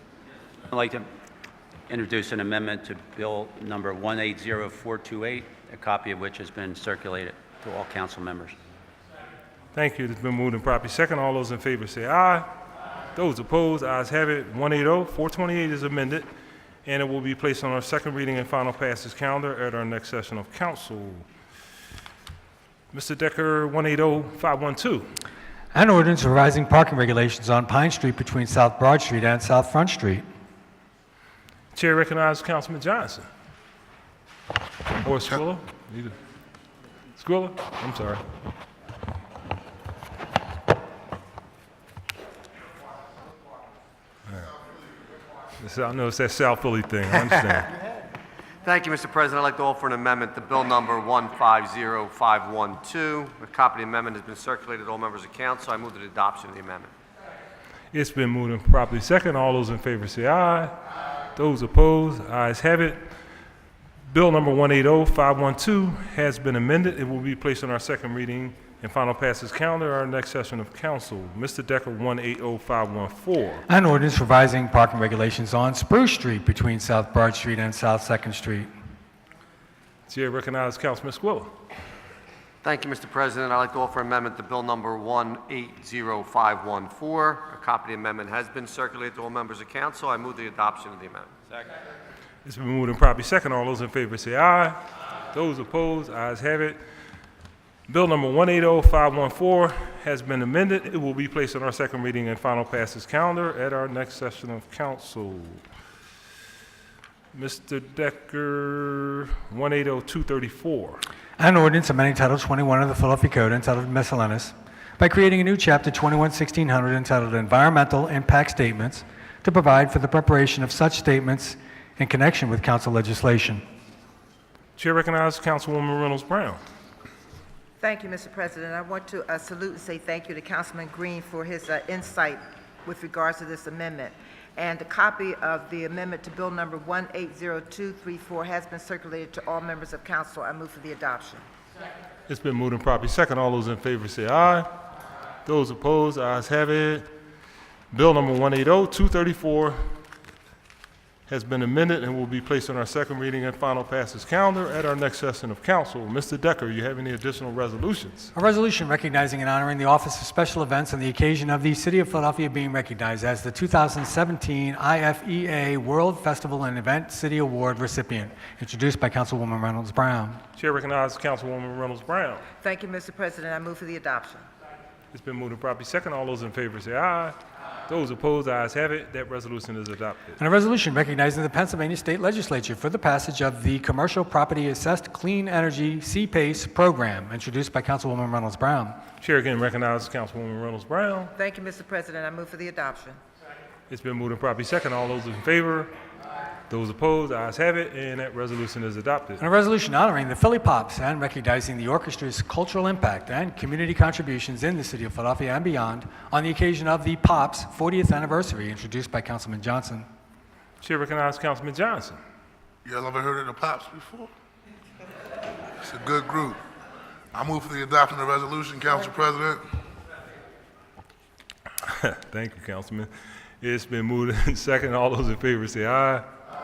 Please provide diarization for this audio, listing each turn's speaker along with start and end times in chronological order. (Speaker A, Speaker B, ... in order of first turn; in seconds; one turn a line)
Speaker A: 0.7-1.0
Speaker A: 1.9-8.5
Speaker B: 9.7-12.5
Speaker B: 13.1-16.3
Speaker B: 16.8-21.2
Speaker B: 22.9-25.1
Speaker C: 25.7-30.2
Speaker B: 31.7-33.3
Speaker B: 35.0-36.1
Speaker B: 37.1-38.2
Speaker B: 44.3-44.5
Speaker B: 45.6-47.7
Speaker D: 48.6-56.9
Speaker B: 57.9-60.7
Speaker B: 61.4-63.0
Speaker B: 64.1-73.6
Speaker C: 73.7-78.7
Speaker B: 80.1-81.5
Speaker D: 82.6-91.3
Speaker B: 92.4-96.8
Speaker B: 97.9-105.6
Speaker B: 107.3-111.0
Speaker C: 111.4-123.6
Speaker B: 124.8-126.6
Speaker E: 127.8-141.4
Speaker B: 142.3-144.7
Speaker B: 145.4-147.1
Speaker B: 147.9-149.8
Speaker B: 151.3-158.3
Speaker C: 158.3-170.4
Speaker B: 170.6-172.4
Speaker E: 172.6-174.4
Speaker B: 175.1-177.3
Speaker B: 177.9-180.4
Speaker C: 180.4-189.0
Speaker B: 189.2-191.3
Speaker E: 191.4-193.2
Speaker B: 193.9-195.9
Speaker B: 196.7-199.4
Speaker C: 199.4-210.1
Speaker B: 210.8-212.2
Speaker F: 212.8-214.3
Speaker F: 215.8-216.6
Speaker F: 217.3-219.6
Speaker B: 221.8-223.1
Speaker B: 223.6-226.2